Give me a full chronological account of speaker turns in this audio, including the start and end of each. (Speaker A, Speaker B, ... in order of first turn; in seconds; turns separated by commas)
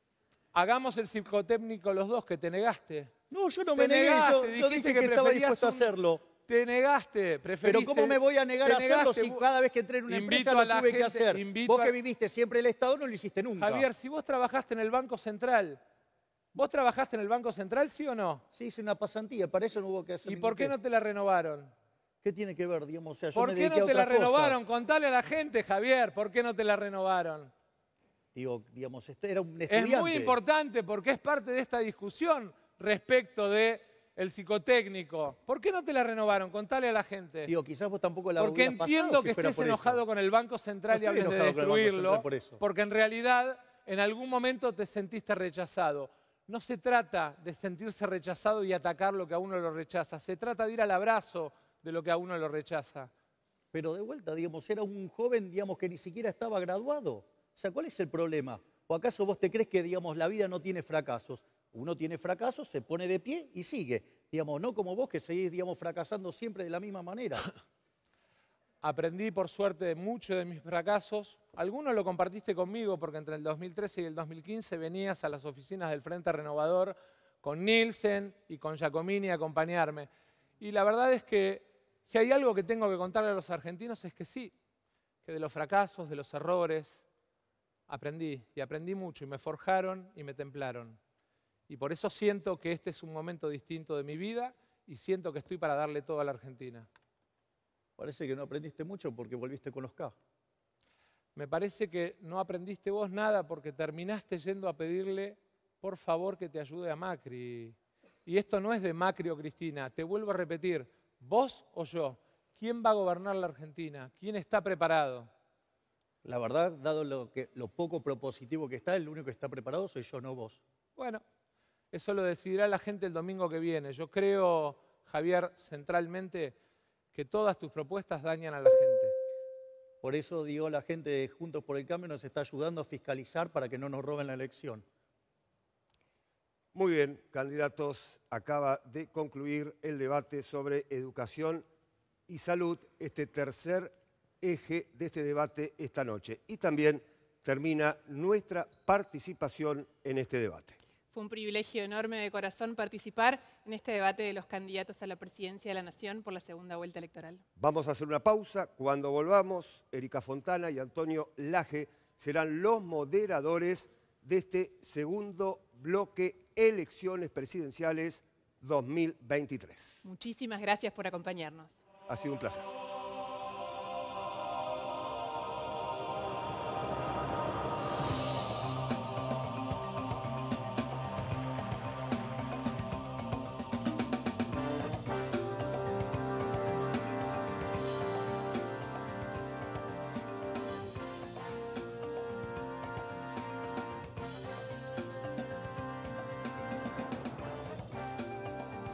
Speaker A: 0.5-3.1, Speaker B: 3.3-6.2, Speaker A: 3.7-5.9, Speaker A: 6.5-9.4, Speaker B: 7.6-13.9, Speaker A: 10.1-11.9, Speaker A: 13.6-15.8, Speaker A: 16.5-18.4, Speaker B: 18.5-20.7, Speaker A: 20.2-21.7, Speaker B: 22.2-24.6, Speaker A: 23.3-27.5, Speaker B: 28.3-30.4, Speaker A: 29.7-37.5, Speaker B: 37.5-40.0, Speaker A: 38.4-53.1, Speaker B: 40.9-42.6, Speaker B: 53.7-67.5, Speaker A: 68.8-80.1, Speaker A: 80.6-84.5, Speaker A: 85.2-87.0, Speaker A: 87.9-91.0, Speaker A: 91.7-96.9, Speaker B: 98.0-100.1, Speaker A: 101.3-115.3, Speaker B: 116.2-120.6, Speaker A: 121.0-121.2, Speaker A: 121.9-126.5, Speaker A: 127.1-129.1, Speaker B: 130.0-134.8, Speaker C: 136.7-141.7, Speaker C: 142.3-150.8, Speaker D: 151.1-157.4, Speaker C: 157.6-170.1, Speaker D: 170.0-171.8, Speaker C: 172.1-172.7